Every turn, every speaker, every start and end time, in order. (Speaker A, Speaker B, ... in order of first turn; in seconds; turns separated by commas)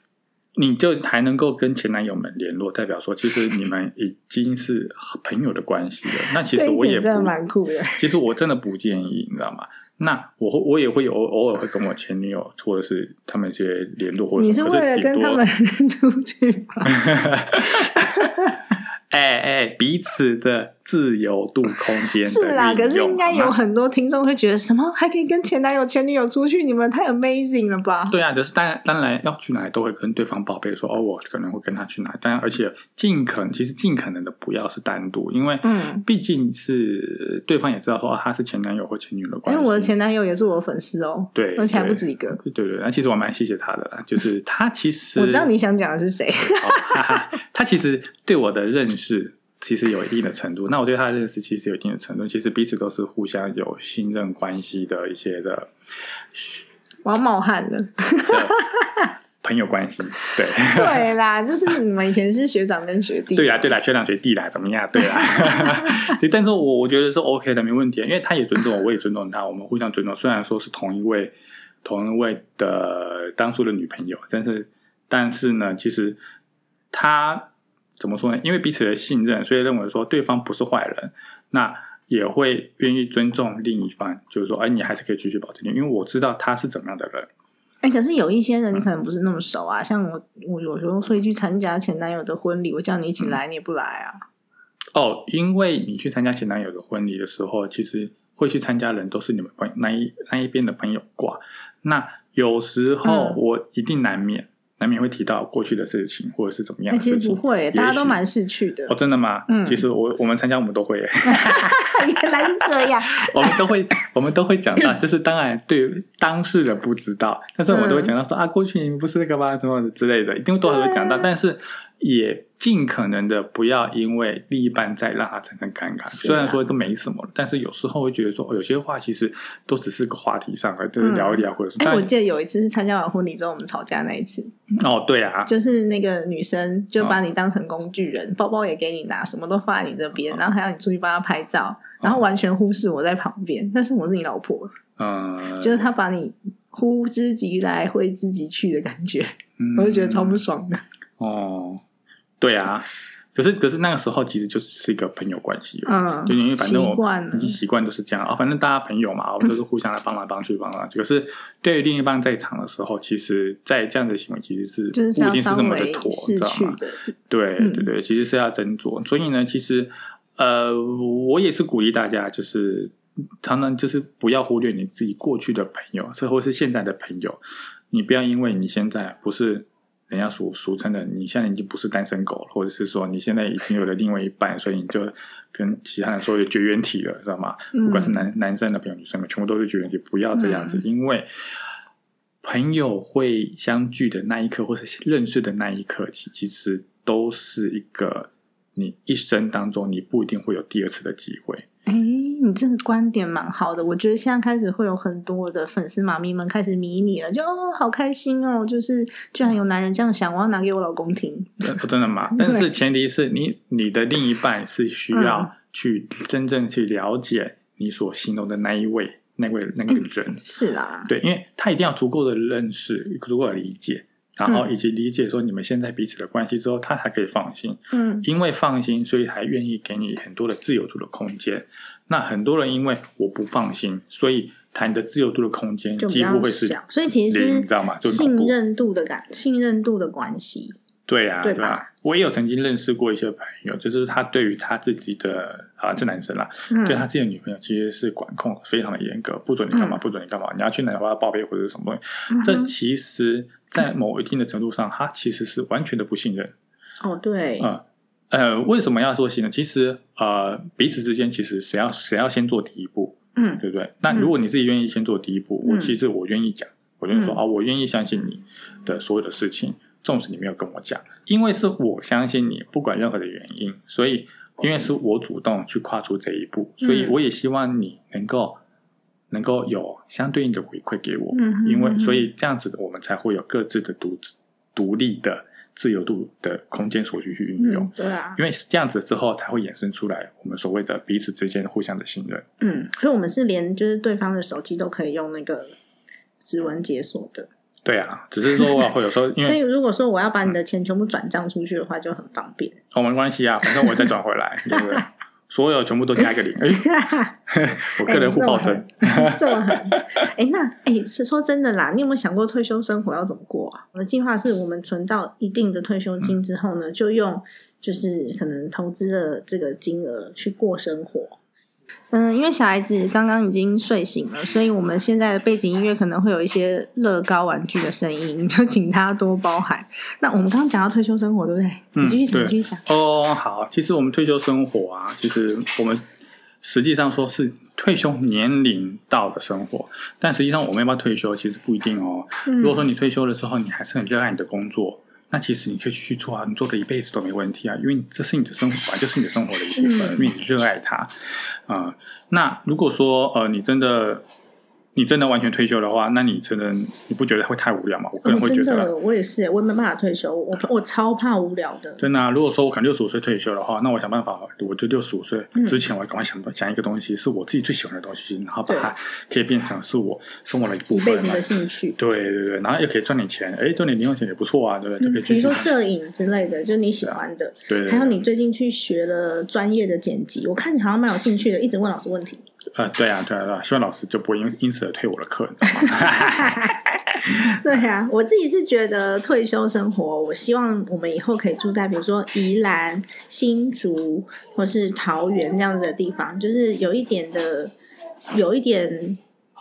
Speaker A: 0.5-7.3, Speaker B: 6.4-8.1, Speaker A: 8.0-15.4, Speaker B: 14.4-17.0, Speaker A: 16.8-18.3, Speaker B: 17.8-18.5, Speaker A: 19.1-23.5, Speaker B: 22.2-28.1, Speaker A: 28.1-39.9, Speaker B: 35.6-36.0, Speaker B: 39.5-42.4, Speaker A: 41.3-45.5, Speaker B: 45.1-47.1, Speaker A: 46.4-55.7, Speaker A: 56.3-56.6, Speaker B: 57.0-59.1, Speaker A: 58.3-58.6, Speaker A: 59.4-61.1, Speaker B: 60.6-63.7, Speaker A: 63.3-76.2, Speaker B: 65.4-65.9, Speaker A: 76.9-87.3, Speaker B: 87.8-94.2, Speaker A: 94.9-108.2, Speaker B: 103.0-103.4, Speaker B: 106.9-108.9, Speaker A: 108.9-132.1, Speaker B: 109.5-109.8, Speaker B: 111.2-113.5, Speaker B: 117.7-118.0, Speaker B: 126.1-126.6, Speaker B: 131.0-134.5, Speaker A: 134.7-135.5, Speaker B: 135.4-144.7, Speaker A: 145.0-145.9, Speaker B: 145.6-150.8, Speaker A: 149.6-150.4, Speaker A: 151.2-151.8, Speaker A: 152.4-191.6, Speaker B: 155.8-157.6, Speaker B: 164.9-167.8, Speaker B: 187.7-188.2, Speaker B: 190.4-190.8, Speaker A: 192.4-201.7, Speaker B: 201.9-211.8, Speaker A: 211.6-220.4, Speaker B: 212.3-212.6, Speaker B: 215.1-215.5, Speaker B: 220.4-221.1, Speaker A: 221.1-238.5, Speaker B: 227.9-228.2, Speaker B: 236.0-240.8, Speaker A: 241.1-256.5, Speaker B: 241.4-241.8, Speaker B: 246.7-247.0, Speaker B: 252.3-252.7, Speaker B: 257.0-257.7, Speaker A: 257.6-278.6, Speaker B: 263.4-264.3, Speaker B: 265.6-265.9, Speaker B: 276.8-277.1, Speaker A: 279.3-292.4, Speaker B: 281.3-282.3, Speaker B: 287.6-288.4, Speaker B: 292.6-295.7, Speaker B: 296.4-297.5, Speaker A: 297.8-299.6, Speaker B: 299.4-302.8, Speaker A: 302.9-306.9, Speaker B: 306.8-307.3, Speaker A: 307.5-310.0, Speaker B: 308.0-321.4, Speaker B: 322.1-332.8, Speaker A: 331.9-336.0, Speaker A: 336.6-354.2, Speaker B: 342.4-342.8, Speaker B: 349.8-350.2, Speaker A: 354.9-358.9, Speaker B: 358.2-362.0, Speaker A: 362.0-371.4, Speaker B: 370.9-372.0, Speaker A: 371.9-375.7, Speaker B: 375.0-382.4, Speaker A: 377.0-378.2, Speaker A: 382.7-387.6, Speaker B: 386.0-397.7, Speaker B: 398.3-399.2